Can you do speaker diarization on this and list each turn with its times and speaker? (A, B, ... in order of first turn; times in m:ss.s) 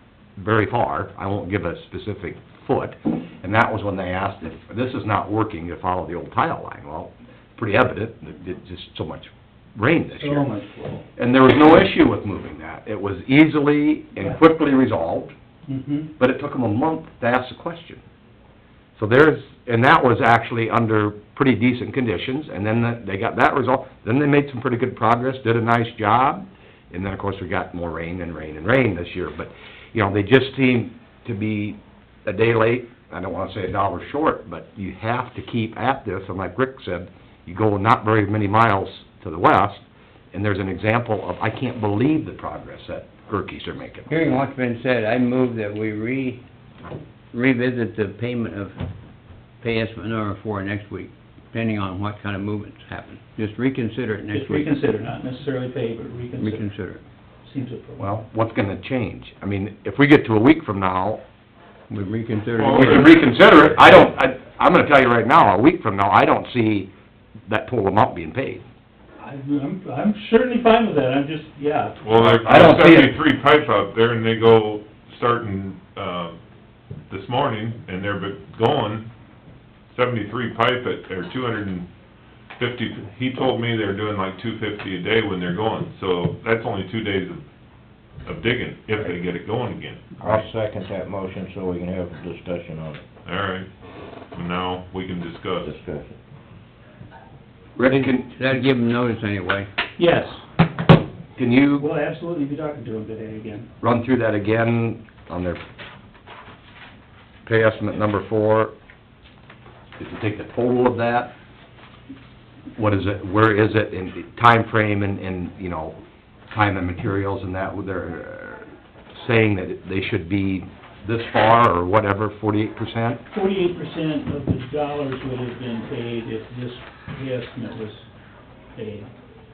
0:00.4-0:10.5 A
0:10.1-0:11.1 B
0:11.2-0:15.3 A
0:15.7-0:16.1 B
0:16.2-0:18.0 A
0:19.0-0:44.2 A
0:44.1-0:46.4 C
0:47.3-0:48.8 C
0:49.6-0:54.7 C
0:54.3-0:56.7 B
0:56.4-0:57.0 C
0:57.4-0:58.2 B
0:58.0-1:01.2 A
1:01.9-1:03.2 C
1:02.6-1:03.7 D
1:02.8-1:06.9 A
1:07.5-1:08.6 A
1:09.2-1:12.0 B
1:12.0-1:16.4 D
1:12.1-1:13.2 A
1:17.1-1:19.1 D
1:19.9-1:21.9 D
1:22.6-1:27.4 D
1:28.2-1:30.1 D
1:30.2-1:33.0 E
1:33.2-1:33.7 D
1:34.3-1:35.7 D
1:35.6-1:36.2 E
1:37.8-1:38.7 A
1:37.9-1:39.7 C
1:40.0-1:40.4 B
1:41.4-1:41.8 A
1:41.8-1:43.7 B
1:43.8-1:45.6 A
1:47.4-1:48.7 A
1:50.0-1:51.3 A
1:52.8-1:56.0 A
1:56.5-2:03.2 A
2:03.3-2:08.1 B
2:08.8-2:09.1 B